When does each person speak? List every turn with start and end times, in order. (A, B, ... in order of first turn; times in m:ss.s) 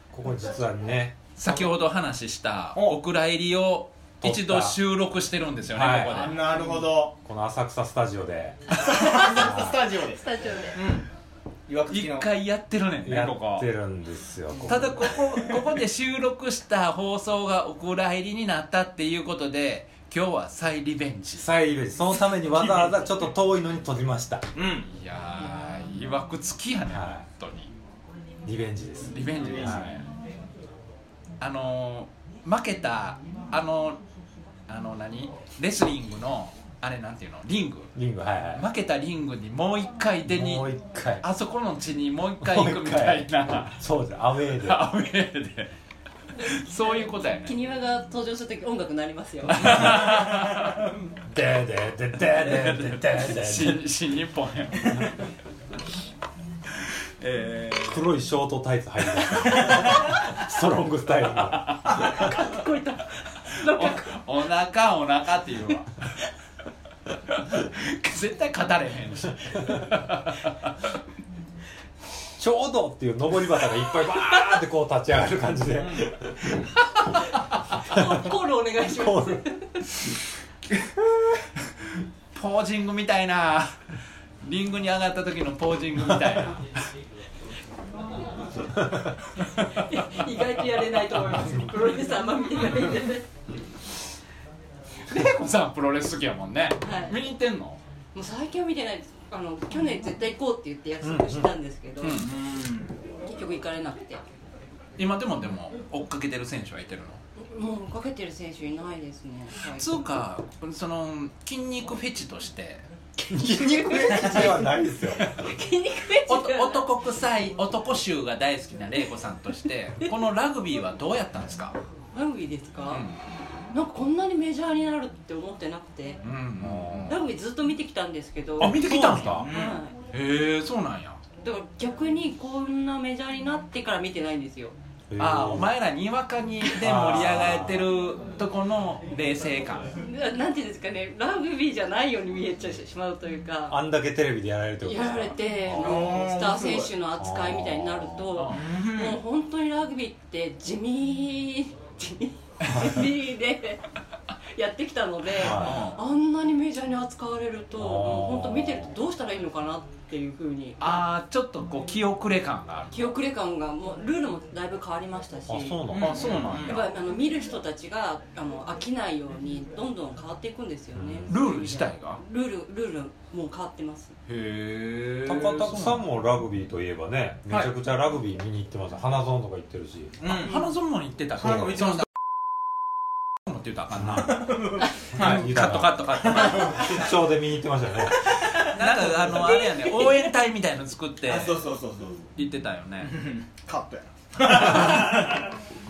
0:00.1-0:01.3 A
0:01.4-0:06.4 B
0:04.2-0:04.8 A
0:05.7-0:06.4 A
0:06.2-0:07.1 C
0:07.2-0:09.8 A
0:08.7-0:11.1 C
0:10.2-0:10.8 D
0:11.7-0:12.3 C
0:11.9-0:13.7 B
0:13.0-0:15.1 A
0:14.6-0:21.5 B
0:21.4-0:24.5 A
0:24.5-0:24.9 C
0:24.9-0:27.7 B
0:26.9-0:27.2 A
0:28.4-0:29.9 A
0:29.1-0:30.0 B
0:29.4-0:29.8 C
0:31.4-0:34.0 B
0:34.7-0:37.9 B
0:37.9-0:38.6 A
0:38.5-0:43.8 B
0:40.3-0:41.2 A
0:42.4-0:44.8 A
0:44.6-0:45.7 B
0:46.4-0:47.6 B
0:46.8-0:49.9 D
0:49.5-0:50.9 B
0:51.3-0:53.8 A
0:52.4-0:55.2 B
0:57.2-0:58.1 B
0:57.8-1:02.2 A
0:59.6-1:00.0 B
1:01.4-1:02.4 B
1:02.2-1:04.2 D
1:03.6-1:05.9 B
1:07.3-1:10.7 B
1:12.4-1:16.7 A
1:15.7-1:16.0 C
1:17.8-1:18.3 A
1:17.8-1:19.8 D
1:18.9-1:19.4 A
1:22.3-1:23.8 B
1:24.4-1:26.7 B
1:29.8-1:33.3 D
1:35.1-1:37.8 B
1:36.8-1:37.2 D
1:38.1-1:42.2 D
1:41.0-1:41.5 A
1:42.0-1:42.3 B
1:42.1-1:42.9 C
1:43.3-1:44.2 D
1:45.0-1:47.2 B
1:47.5-1:49.9 D
1:49.7-1:52.8 B
1:53.2-1:54.6 D
1:53.3-1:55.3 A
1:55.4-1:56.9 D
1:56.3-2:01.8 B
2:02.1-2:03.0 D
2:02.9-2:03.2 B
2:03.7-2:06.2 D
2:06.2-2:07.1 B
2:06.6-2:07.2 A
2:07.0-2:08.8 D
2:08.6-2:09.4 A
2:08.6-2:09.5 B
2:09.3-2:09.8 C
2:09.4-2:09.9 D
2:10.1-2:11.2 B
2:11.4-2:14.8 D
2:15.1-2:15.7 A
2:15.2-2:19.9 B
2:16.7-2:17.9 A
2:20.0-2:23.8 D
2:23.7-2:26.1 A
2:24.8-2:33.8 D
2:25.8-2:26.9 C
2:27.2-2:28.3 A
2:28.4-2:28.6 B
2:28.5-2:29.2 C
2:34.5-2:41.0 D
2:35.4-2:35.8 A
2:35.6-2:36.0 B
2:35.7-2:35.9 C
2:37.8-2:38.9 A
2:40.8-2:43.2 B
2:42.9-2:45.9 D
2:45.5-2:46.6 A
2:45.9-2:46.8 C
2:45.9-2:46.8 B
2:46.6-2:54.1 D
2:50.9-2:51.3 A
2:51.3-2:52.2 B
2:54.2-2:56.0 B
2:55.2-3:00.3 A
2:57.5-2:57.7 C
3:00.2-3:00.6 C
3:00.4-3:02.0 B
3:01.4-3:02.0 C
3:01.4-3:01.8 A
3:03.4-3:04.6 B
3:04.0-3:04.3 A
3:04.4-3:05.5 C
3:05.1-3:07.0 B
3:05.1-3:08.4 A
3:06.2-3:06.9 C
3:08.5-3:09.7 C
3:08.6-3:11.6 B
3:09.4-3:10.3 D
3:11.2-3:12.3 C
3:12.4-3:13.2 B
3:13.0-3:15.5 C